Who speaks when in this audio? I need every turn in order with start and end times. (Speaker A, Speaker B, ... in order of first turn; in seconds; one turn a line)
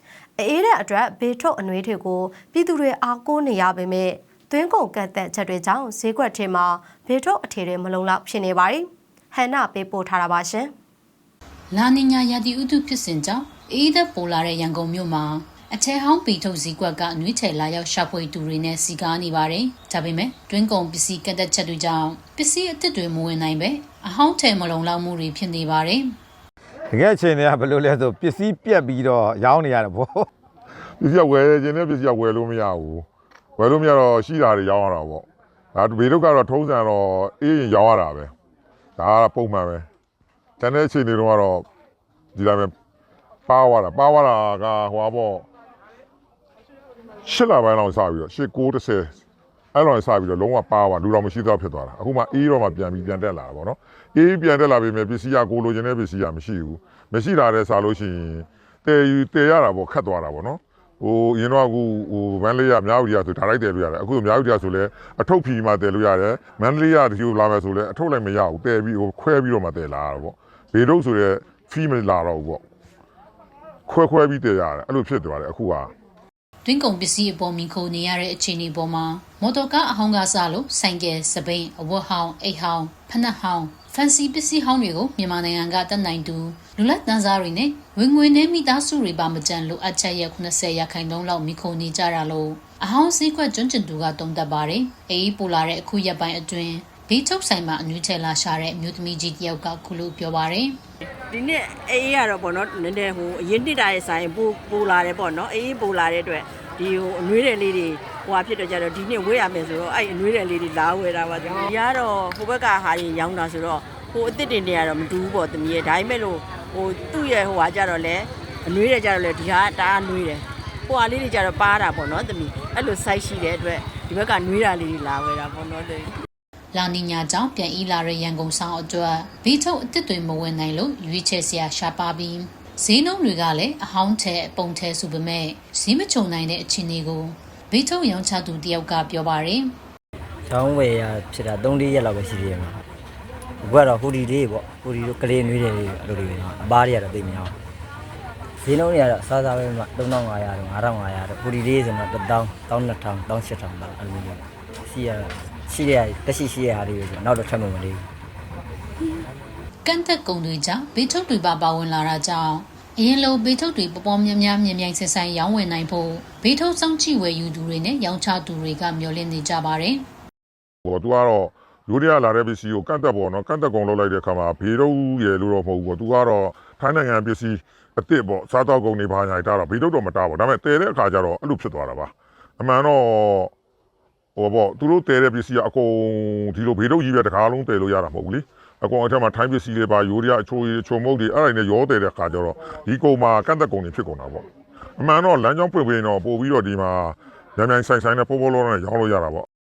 Speaker A: 0.4-10.7
Speaker B: 11.7-26.1
Speaker C: 26.9-30.3
Speaker D: 31.0-33.0
Speaker D: 33.6-38.3
Speaker D: 39.0-39.9
Speaker D: 40.6-41.7
Speaker D: 42.3-42.7
Speaker D: 43.5-45.5
Speaker D: 47.2-49.1
Speaker D: 49.7-72.6
Speaker D: 73.9-75.9
Speaker B: 76.6-100.8
Speaker E: 101.3-126.1
Speaker B: 126.7-139.7
Speaker F: 140.5-142.8
Speaker F: 143.6-147.6
Speaker F: 148.6-158.1
Speaker B: 159.8-170.0
Speaker D: 170.8-183.5
Speaker D: 184.3-194.4
Speaker D: 195.0-199.4